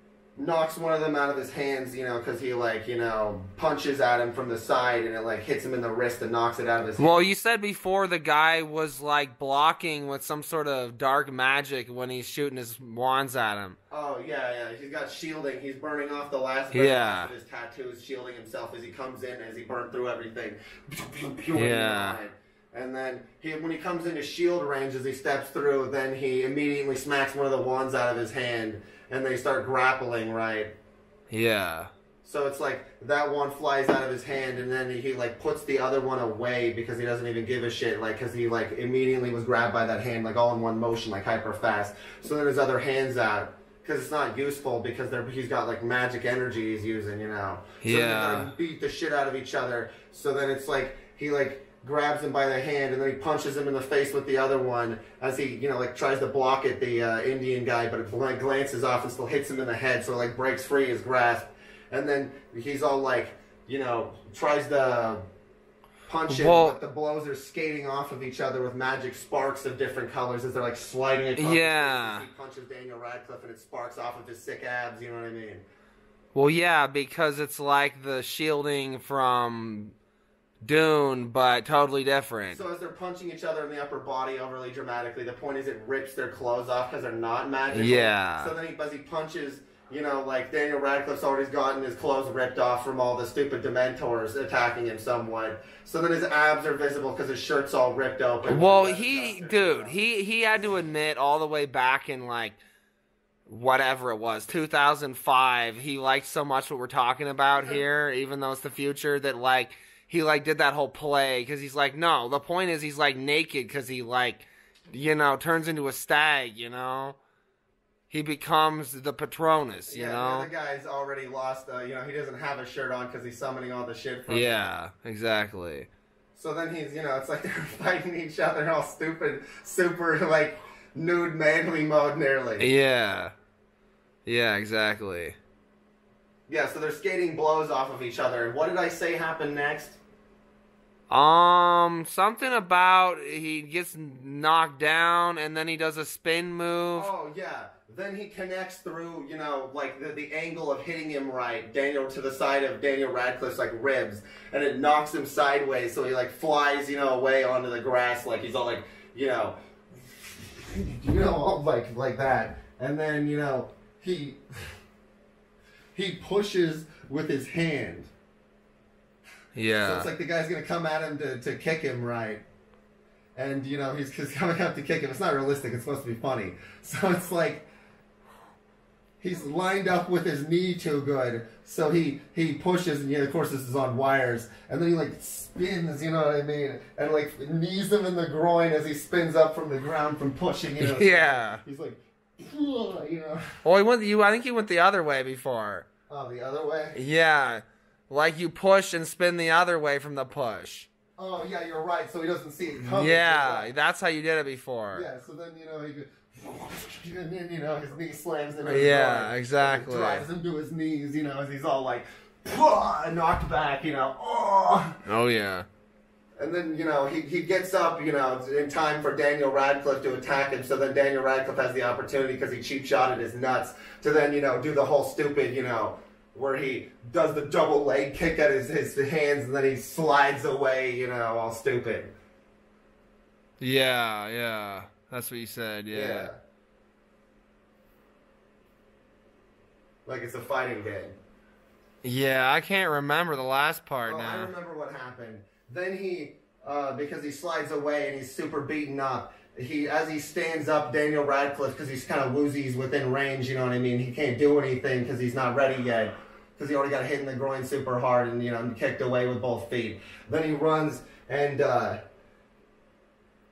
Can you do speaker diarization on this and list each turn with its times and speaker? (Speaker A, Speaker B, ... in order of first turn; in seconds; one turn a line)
Speaker A: 0.4-7.3
Speaker B: 7.0-13.8
Speaker A: 13.9-30.7
Speaker B: 16.7-17.3
Speaker B: 21.5-22.2
Speaker B: 31.3-31.9
Speaker A: 32.2-65.2
Speaker B: 47.8-48.5
Speaker A: 66.1-75.6
Speaker B: 66.3-66.8
Speaker B: 71.4-72.3
Speaker B: 76.3-80.0
Speaker B: 80.6-82.6
Speaker A: 82.5-100.0
Speaker B: 87.7-88.5
Speaker B: 98.5-102.6
Speaker B: 103.5-117.2
Speaker A: 107.5-107.8
Speaker B: 118.1-120.5
Speaker A: 119.9-124.6
Speaker B: 124.3-125.9
Speaker A: 126.3-132.7
Speaker B: 132.6-133.3
Speaker B: 134.3-135.4
Speaker A: 136.5-140.0
Speaker B: 141.1-147.1
Speaker A: 147.0-164.4
Speaker A: 165.9-168.1
Speaker B: 169.6-170.1
Speaker A: 169.8-172.4
Speaker A: 173.4-177.7
Speaker A: 179.2-193.4
Speaker B: 190.8-191.6
Speaker B: 193.6-195.9
Speaker A: 196.1-197.0
Speaker B: 196.9-200.9
Speaker A: 201.2-203.7
Speaker B: 202.8-205.1
Speaker A: 204.9-215.0
Speaker B: 208.7-210.2
Speaker B: 215.1-215.7
Speaker A: 216.4-232.1
Speaker B: 233.6-236.3
Speaker A: 235.9-236.4
Speaker A: 240.1-241.2
Speaker B: 242.0-244.5
Speaker A: 244.1-262.0